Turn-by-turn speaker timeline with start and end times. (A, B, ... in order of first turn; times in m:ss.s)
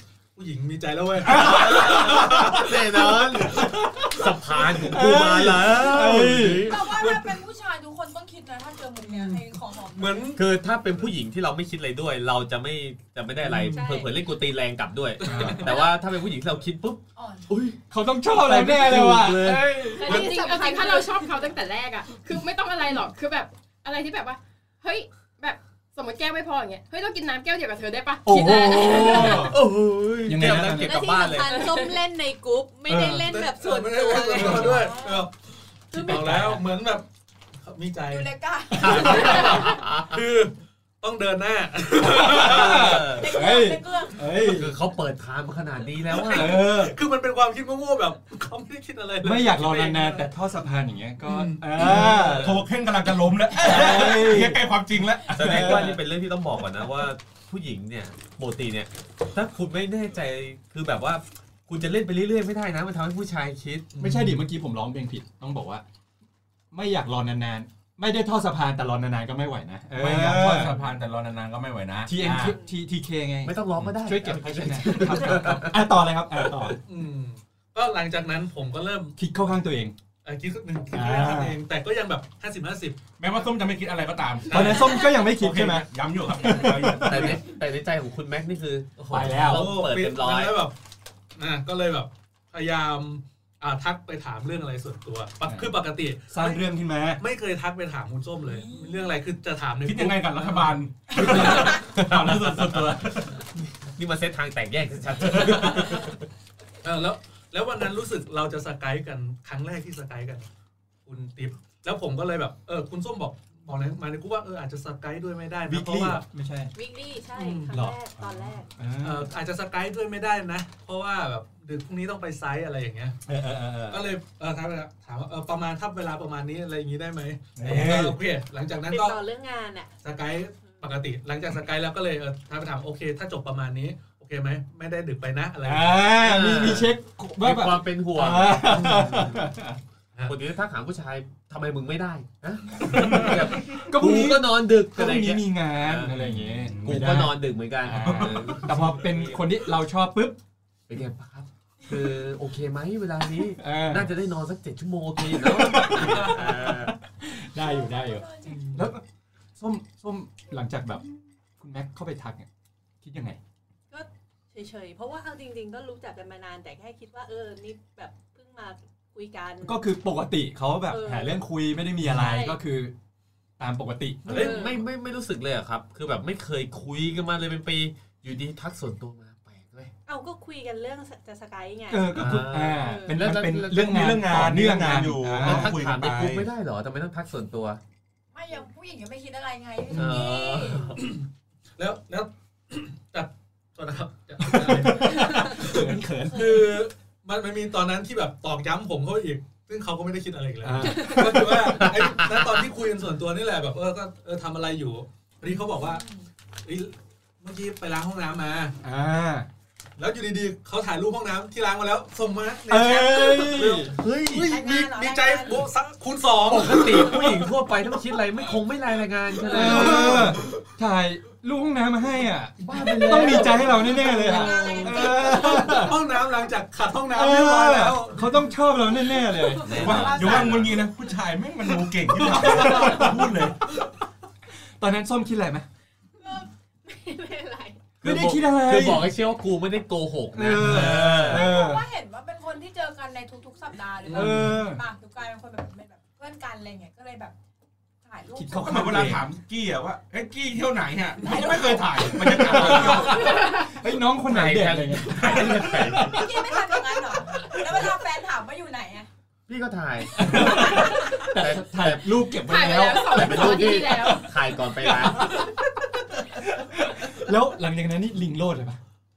0:00.4-0:03.2 A
0:01.3-0:04.2 B
0:01.4-0:06.9 C
0:04.3-0:04.9 A
0:04.8-0:06.8 B
0:06.6-0:10.3 D
0:06.9-0:07.3 A
0:09.0-0:10.4 A
0:10.4-0:20.2 C
0:13.7-0:14.2 E
0:15.2-0:15.8 A
0:15.2-0:15.7 B
0:17.2-0:17.5 D
0:17.9-0:20.3 B
0:20.0-0:29.5 F
0:20.0-0:21.5 E
0:28.2-0:29.6 B
0:28.9-0:31.8 C
0:30.3-0:31.1 B
0:30.8-0:35.0 E
0:32.9-0:33.3 B
0:33.2-0:37.1 A
0:34.4-0:34.8 B
0:34.6-0:35.2 D
0:35.9-0:36.2 E
0:36.0-0:36.6 C
0:37.6-0:42.8 A
0:38.1-0:39.8 D
0:38.7-0:40.2 C
0:42.0-0:44.7 B
0:42.4-0:43.4 C
0:42.9-0:44.5 D
0:44.4-0:46.6 C
0:46.1-0:50.3 A
0:46.3-0:47.0 B
0:49.2-0:52.6 B
0:51.2-0:52.5 A
0:51.9-0:55.8 G
0:53.5-0:54.7 B
0:55.3-1:03.9 C
0:55.3-0:56.0 B
1:03.9-1:04.4 A
1:04.0-1:05.8 B
1:06.7-1:10.7 B
1:10.0-1:12.6 G
1:12.1-1:16.8 B
1:12.3-1:12.7 E
1:13.4-1:16.4 C
1:16.8-1:19.2 A
1:19.2-1:20.0 B
1:20.2-1:23.0 A
1:20.9-1:21.6 B
1:23.2-1:27.4 G
1:24.5-1:24.8 A
1:24.5-1:27.4 B
1:27.0-1:30.6 C
1:29.1-1:29.7 B
1:29.4-1:30.8 A
1:31.4-1:36.7 A
1:35.5-1:35.7 B
1:36.3-1:37.2 B
1:37.2-1:41.4 A
1:38.5-1:39.2 D
1:39.8-1:43.5 G
1:43.8-1:46.2 C
1:45.2-1:46.0 G
1:46.8-1:50.5 A
1:51.1-1:56.2 A
1:55.7-1:56.7 B
1:56.8-1:58.7 E
1:57.3-1:57.7 A
1:57.7-1:59.3 B
1:59.0-2:03.2 A
2:03.3-2:04.1 B
2:03.9-2:09.2 A
2:07.6-2:08.2 B
2:08.7-2:10.0 E
2:10.0-2:16.2 A
2:10.6-2:10.9 E
2:15.6-2:19.8 B
2:16.2-2:19.5 C
2:18.8-2:19.0 A
2:20.3-2:29.4 C
2:22.9-2:30.4 B
2:23.0-2:23.4 G
2:26.1-2:27.3 G
2:28.0-2:28.7 G
2:30.9-2:37.0 C
2:33.6-2:34.1 B
2:35.4-2:39.0 B
2:37.6-2:38.6 D
2:38.5-2:38.9 A
2:39.6-2:42.5 B
2:43.0-2:43.4 B
2:43.9-2:49.8 E
2:49.6-2:52.9 B
2:50.9-2:51.5 E
2:52.0-2:52.6 E
2:53.6-2:54.6 B
2:54.3-2:59.9 C
2:54.3-2:54.9 E
3:00.1-3:03.2 E
3:01.9-3:06.4 B
3:02.1-3:04.5 C
3:03.8-3:06.4 G
3:05.4-3:07.8 C
3:08.3-3:11.0 D
3:09.9-3:11.1 C
3:11.0-3:11.2 A
3:11.8-3:26.0 A
3:14.4-3:16.8 B
3:20.6-3:21.9 B
3:25.5-3:26.3 D
3:26.6-3:28.8 A
3:28.8-3:29.5 B
3:30.0-3:37.5 A
3:32.7-3:34.0 B
3:34.0-3:34.5 C
3:34.4-3:35.7 D
3:36.5-3:40.4 C
3:39.4-3:40.6 A
3:39.4-3:46.0 B
3:42.6-3:44.0 A
3:42.7-3:43.7 C
3:42.7-3:46.2 D
3:44.8-3:48.5 A
3:47.1-3:50.1 B
3:49.5-3:50.6 D
3:49.6-3:50.8 C
3:49.7-3:53.7 G
3:52.2-3:53.2 B
3:54.8-3:55.7 B
3:56.2-3:57.8 E
3:58.0-4:01.5 C
3:58.0-3:59.1 B
4:00.3-4:01.8 B
4:00.6-4:01.2 G
4:01.0-4:07.4 D
4:04.1-4:04.4 A
4:04.1-4:04.8 B
4:08.0-4:08.9 D
4:08.4-4:09.3 B
4:08.6-4:13.3 G
4:11.2-4:13.4 D
4:12.2-4:16.5 B
4:12.5-4:13.3 C
4:14.3-4:16.3 C
4:15.3-4:19.1 D
4:19.5-4:25.5 C
4:20.2-4:28.8 B
4:20.8-4:21.1 D
4:22.4-4:24.5 F